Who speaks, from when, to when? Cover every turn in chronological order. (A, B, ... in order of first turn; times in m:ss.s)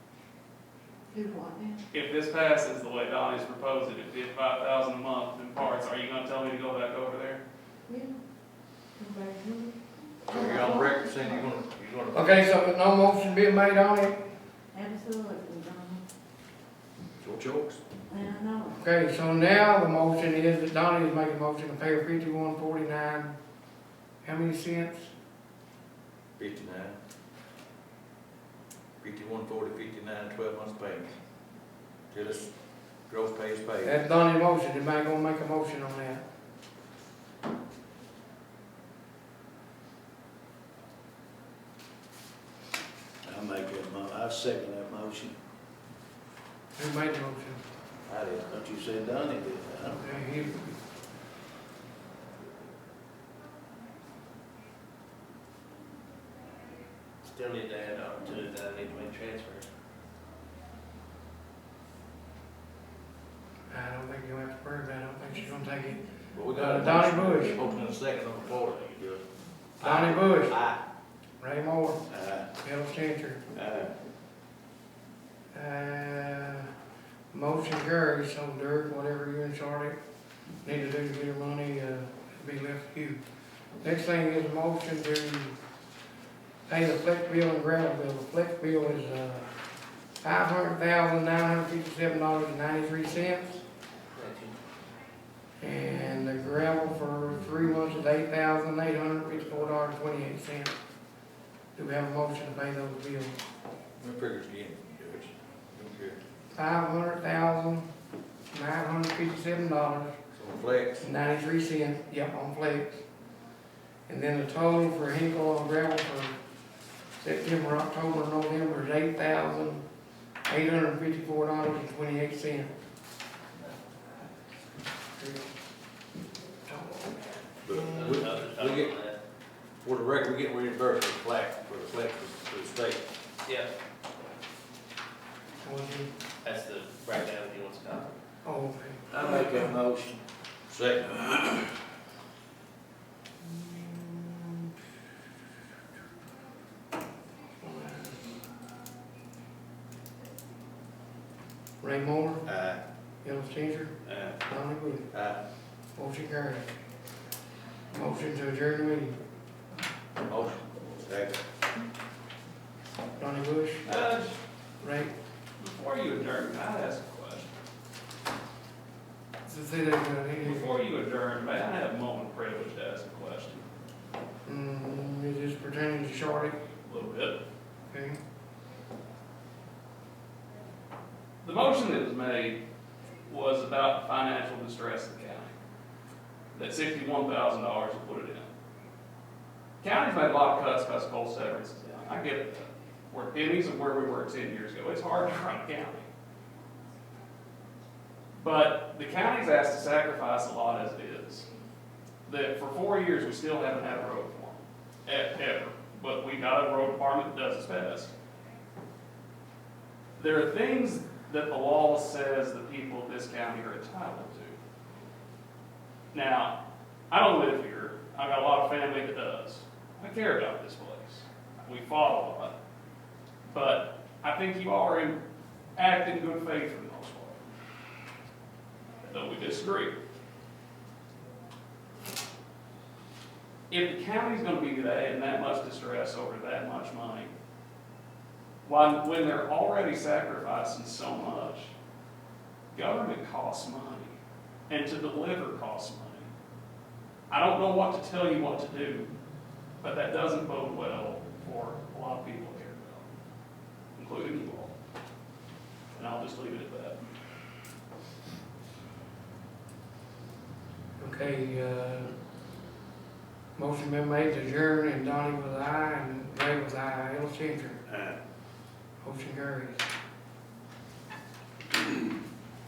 0:01.1-0:01.8 A
0:01.9-0:07.4 B
0:07.9-0:08.2 A
0:09.0-0:11.1 A
0:10.3-0:12.6 C
0:12.1-0:14.2 D
0:14.7-0:16.0 A
0:17.2-0:17.8 C
0:18.1-0:18.8 A
0:18.8-0:23.3 D
0:24.2-0:25.1 D
0:26.4-0:27.0 C
0:29.0-0:31.1 C
0:32.1-0:32.5 C
0:33.1-0:33.9 C
0:33.8-0:36.2 D
0:43.2-0:45.3 E
0:46.8-0:47.6 D
0:48.1-0:48.3 C
0:48.2-0:50.0 E
0:49.9-0:50.7 D
0:57.3-0:59.7 F
1:03.7-1:06.0 D
1:06.3-1:09.1 C
1:06.5-1:07.5 D
1:09.8-1:10.6 D
1:09.8-1:10.6 C
1:11.4-1:12.0 D
1:12.1-1:12.5 E
1:12.6-1:13.4 D
1:13.6-1:13.9 E
1:15.5-1:16.7 D
1:17.3-1:20.0 D
1:20.6-1:23.2 D
1:23.8-1:25.5 D
1:26.7-1:29.5 D
1:30.2-1:33.6 D
1:34.1-1:34.6 F
1:35.6-1:40.7 D
1:41.7-1:43.4 D
1:44.0-1:46.2 C
1:46.5-1:47.9 D
1:48.5-1:50.1 D
1:50.4-1:51.1 C
1:51.0-1:53.0 D
1:54.1-1:56.3 D
1:57.2-1:59.8 D
2:00.4-2:02.7 D
2:05.2-2:05.4 D
2:06.6-2:08.2 D
2:07.6-2:08.9 C
2:07.9-2:09.2 F
2:09.8-2:13.0 C
2:15.6-2:16.1 D
2:16.4-2:18.1 F
2:18.4-2:19.7 D
2:19.1-2:20.2 E
2:20.7-2:21.7 C
2:23.4-2:24.7 D
2:27.6-2:28.4 D
2:31.8-2:32.4 D
2:33.2-2:35.1 D
2:36.0-2:36.6 D
2:37.9-2:39.2 D
2:40.2-2:41.4 C
2:43.2-2:43.8 D
2:43.8-2:44.4 B
2:44.8-2:45.1 D
2:45.6-2:47.5 B
2:49.4-2:50.7 D
2:50.4-2:53.6 B
2:54.4-2:56.6 D
2:56.8-2:57.4 B
2:57.9-2:58.2 D
3:01.4-3:02.6 B
3:03.2-3:05.5 B
3:06.5-3:08.5 B
3:09.8-3:16.1 B
3:18.4-3:21.5 B
3:22.2-3:28.1 B
3:30.2-3:34.6 B
3:36.1-3:36.5 B
3:37.1-3:42.5 B
3:43.5-3:45.2 B
3:45.8-3:47.5 B
3:49.0-3:49.9 B
3:53.7-3:57.3 B
3:58.6-4:01.7 B
4:02.7-4:04.1 B
4:04.7-4:06.3 B
4:07.3-4:09.1 B
4:09.8-4:13.1 B
4:14.0-4:14.7 B
4:15.9-4:17.0 B
4:21.0-4:22.1 D
4:23.6-4:27.8 D
4:29.0-4:29.8 D